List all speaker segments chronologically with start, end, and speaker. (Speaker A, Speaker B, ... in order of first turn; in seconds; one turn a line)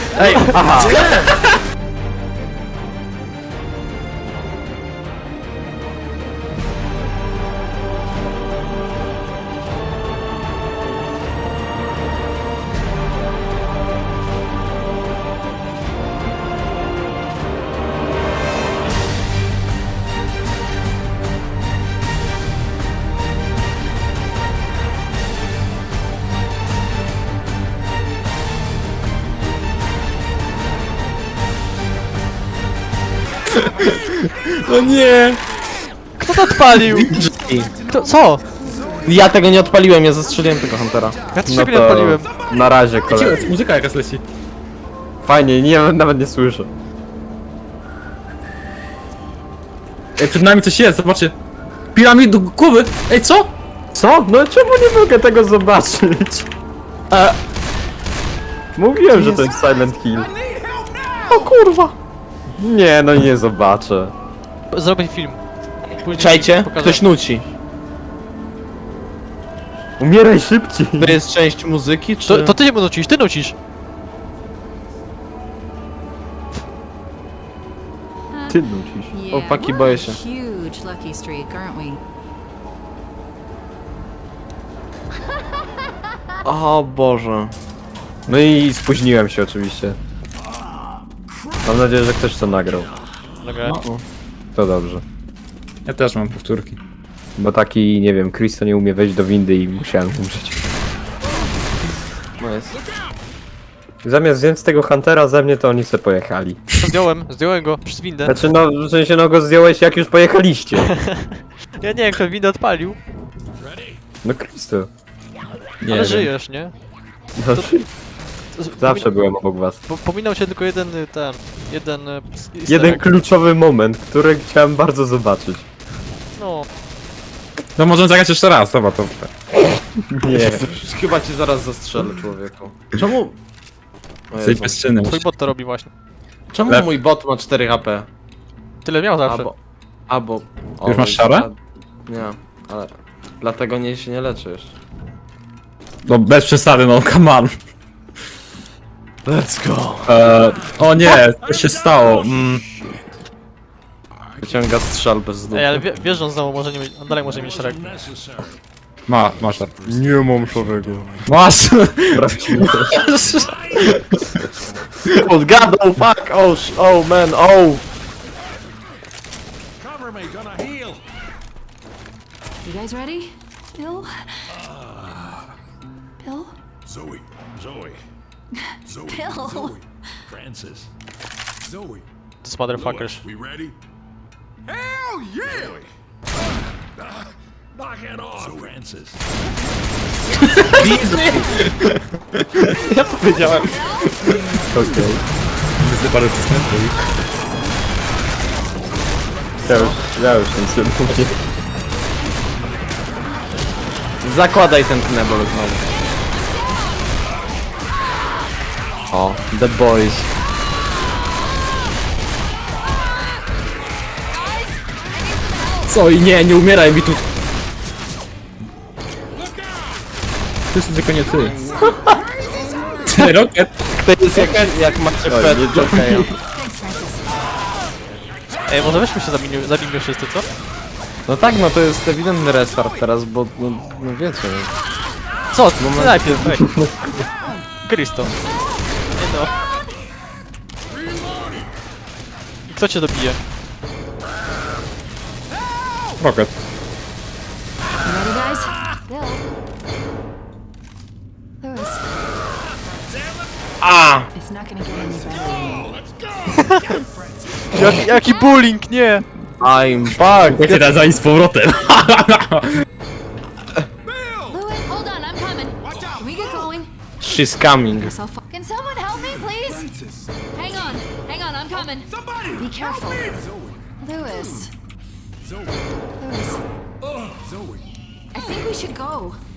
Speaker A: 0.1-1.1
Speaker B: 0.3-1.1
Speaker C: 34.6-35.4
Speaker D: 36.2-37.1
Speaker A: 36.9-37.7
Speaker D: 37.8-38.4
Speaker A: 39.0-41.2
Speaker D: 41.3-42.3
Speaker B: 41.4-43.4
Speaker C: 43.1-44.2
Speaker B: 45.2-46.7
Speaker C: 50.2-51.3
Speaker C: 51.9-53.5
Speaker B: 53.9-56.5
Speaker A: 57.1-57.4
Speaker B: 58.8-60.3
Speaker E: 60.4-61.2
Speaker A: 61.3-61.9
Speaker B: 62.6-64.1
Speaker D: 64.7-67.0
Speaker A: 66.1-67.4
Speaker B: 70.0-71.2
Speaker A: 71.0-72.5
Speaker D: 72.2-73.5
Speaker F: 78.3-78.6
Speaker B: 78.5-79.1
Speaker F: 79.1-82.0
Speaker A: 79.3-80.2
Speaker A: 86.4-87.5
Speaker B: 88.3-90.0
Speaker B: 91.6-92.9
Speaker D: 93.4-93.8
Speaker B: 94.5-95.0
Speaker C: 95.8-96.8
Speaker B: 97.4-100.6
Speaker A: 102.4-102.8
Speaker B: 104.0-106.6
Speaker D: 106.7-108.4
Speaker B: 108.2-110.9
Speaker D: 110.8-113.0
Speaker E: 113.6-114.0
Speaker B: 114.2-114.9
Speaker C: 115.8-116.3
Speaker D: 115.9-116.7
Speaker B: 117.4-117.8
Speaker D: 118.5-119.0
Speaker B: 118.8-119.8
Speaker D: 119.9-123.0
Speaker B: 122.7-125.7
Speaker D: 126.4-126.7
Speaker C: 127.8-129.3
Speaker B: 130.1-130.7
Speaker A: 130.3-133.3
Speaker A: 134.3-134.8
Speaker C: 134.4-135.2
Speaker D: 135.0-135.9
Speaker A: 136.5-138.1
Speaker D: 138.8-139.5
Speaker A: 139.2-139.5
Speaker A: 140.1-141.5
Speaker C: 140.8-141.5
Speaker A: 142.1-144.7
Speaker C: 146.1-147.5
Speaker A: 149.2-150.2
Speaker C: 150.1-152.6
Speaker E: 150.3-153.0
Speaker E: 154.2-154.7
Speaker A: 154.4-155.8
Speaker D: 155.5-158.1
Speaker E: 157.1-161.4
Speaker C: 159.1-159.7
Speaker A: 159.9-161.1
Speaker B: 160.5-160.8
Speaker C: 161.2-164.0
Speaker B: 162.1-162.9
Speaker E: 162.9-164.8
Speaker A: 165.1-167.8
Speaker E: 169.8-171.0
Speaker F: 172.6-174.4
Speaker E: 174.5-175.5
Speaker F: 176.2-176.6
Speaker E: 176.8-178.0
Speaker F: 178.5-179.8
Speaker E: 178.9-180.9
Speaker E: 181.6-182.0
Speaker D: 182.4-183.2
Speaker E: 182.7-183.8
Speaker E: 184.7-185.9
Speaker E: 187.0-189.2
Speaker E: 190.4-190.9
Speaker C: 190.5-191.8
Speaker A: 190.7-191.6
Speaker F: 191.2-191.5
Speaker A: 192.9-193.8
Speaker F: 193.6-194.1
Speaker B: 194.5-195.2
Speaker C: 195.8-196.9
Speaker B: 199.6-201.3
Speaker A: 204.2-205.8
Speaker A: 209.1-210.3
Speaker F: 214.5-215.9
Speaker C: 215.9-217.2
Speaker E: 219.4-219.8
Speaker C: 220.7-221.6
Speaker E: 221.4-223.0
Speaker C: 223.1-223.7
Speaker A: 224.0-226.3
Speaker C: 224.3-224.7
Speaker B: 225.3-226.3
Speaker F: 226.5-227.3
Speaker D: 228.7-230.5
Speaker A: 231.3-234.7
Speaker D: 235.5-236.6
Speaker A: 235.8-236.6
Speaker B: 236.6-236.9
Speaker D: 237.8-238.3
Speaker D: 239.2-239.5
Speaker E: 241.1-241.6
Speaker D: 242.7-243.4
Speaker C: 246.2-246.5
Speaker F: 248.0-249.4
Speaker F: 251.6-252.0
Speaker A: 253.8-254.3
Speaker F: 254.3-255.9
Speaker E: 255.1-257.1
Speaker D: 256.5-256.9
Speaker D: 257.7-259.2
Speaker A: 259.6-260.9
Speaker C: 260.5-262.8
Speaker E: 264.1-264.4
Speaker F: 264.5-266.9
Speaker E: 265.9-266.4
Speaker A: 267.2-268.1
Speaker F: 267.9-269.9
Speaker F: 270.5-273.4
Speaker E: 272.3-273.8
Speaker F: 274.0-274.7
Speaker F: 276.2-276.6
Speaker E: 277.0-277.8
Speaker F: 278.3-279.4